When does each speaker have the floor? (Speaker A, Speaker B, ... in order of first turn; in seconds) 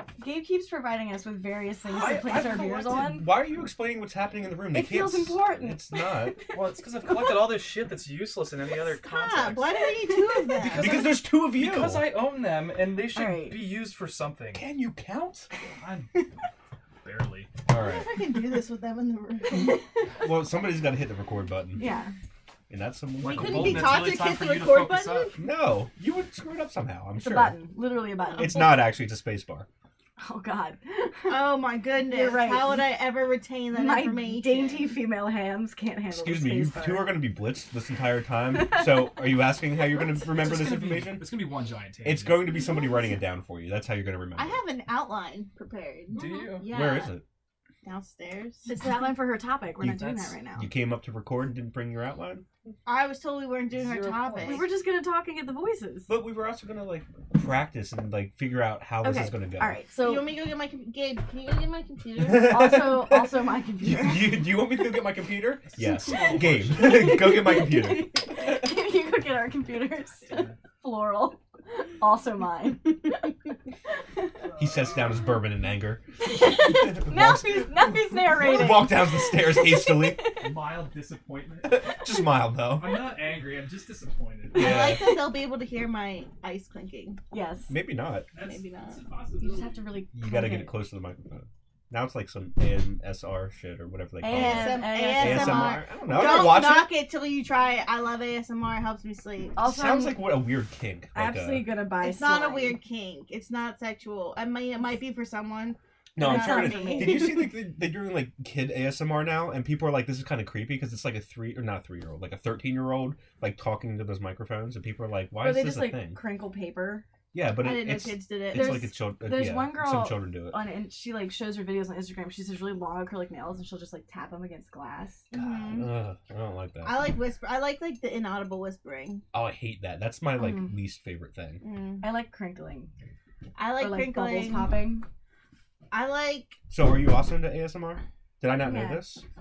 Speaker A: 0.2-3.3, 4.7-6.4, 10.1-10.6, 13.1-13.7, 21.8-22.1, 27.2-28.9, 30.2-32.9, 33.7-37.2, 38.5-39.3, 46.1-46.6, 48.7-50.7, 54.4-56.1, 59.0-60.3, 62.4-64.5, 66.8-73.5, 76.3-80.5, 87.3-87.7, 89.4-90.8, 94.2-95.8, 99.6-100.3, 101.1-102.8, 106.2-107.5, 115.4-117.0, 118.5-125.3, 130.4-130.7, 132.0-132.9, 133.7-135.1, 138.6-139.1
Speaker B: 1.9-6.4, 10.7-12.1, 14.5-15.5, 17.7-18.1, 20.2-21.8, 22.7-24.1, 25.4-27.6, 28.3-29.7, 36.1-41.3, 42.0-44.6, 46.7-47.2, 50.5-52.4, 56.1-59.8, 62.2-68.1, 74.6-76.0, 76.5-80.2, 81.6-83.1, 84.5-85.2, 87.7-88.3, 90.1-96.9, 99.6-101.7, 106.2-116.2, 117.3-120.6, 125.4-127.0, 129.3-131.6, 136.7-139.2
Speaker C: 2.0-2.5, 6.5-9.8, 10.6-14.6, 15.6-16.3, 17.0-17.5, 23.2-25.4, 40.3-42.4, 46.1-46.7, 49.8-50.3, 53.7-54.7, 65.7-67.3, 70.2-70.6, 74.4-75.2, 80.4-81.8, 82.7-84.9, 88.3-89.8
Speaker D: 8.8-11.1, 17.8-19.8, 23.2-25.4, 31.3-35.0, 42.6-42.9, 44.4-47.2, 47.8-48.7, 52.9-54.7, 60.0-62.6, 84.5-87.2, 88.4-89.0, 94.3-99.6, 102.0-107.3, 117.6-118.9, 125.3-125.9, 126.8-129.2, 131.6-132.1, 133.6-134.8, 135.9-136.6